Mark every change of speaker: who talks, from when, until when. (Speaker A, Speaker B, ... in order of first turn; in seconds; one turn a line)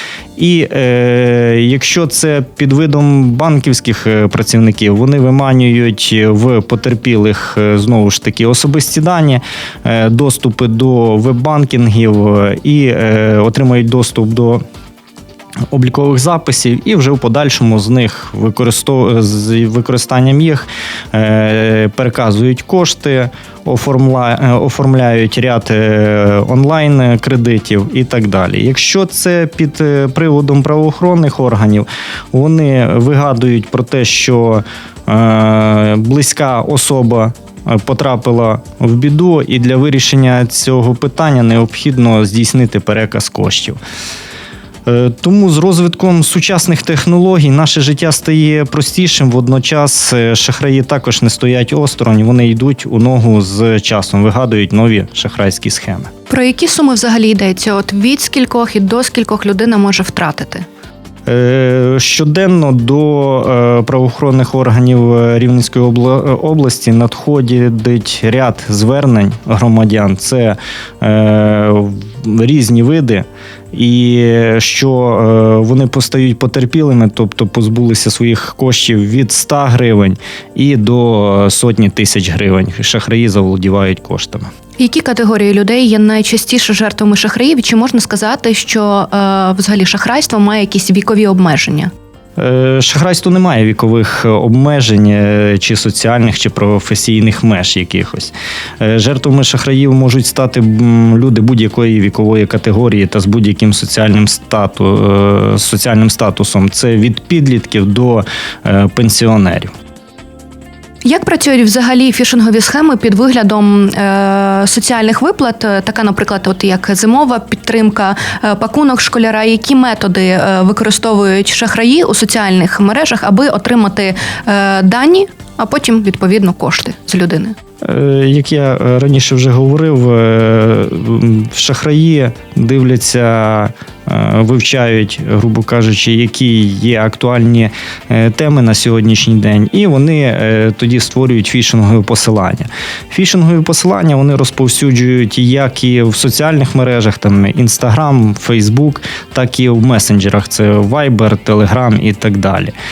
Speaker A: 0.3-14.6
Speaker A: 15.7-43.8
Speaker A: 44.9-56.1
Speaker B: 56.3-60.6
Speaker A: 61.2-84.5
Speaker B: 84.8-91.9
Speaker A: 92.4-109.7
Speaker B: 111.0-127.5
Speaker A: 127.8-152.7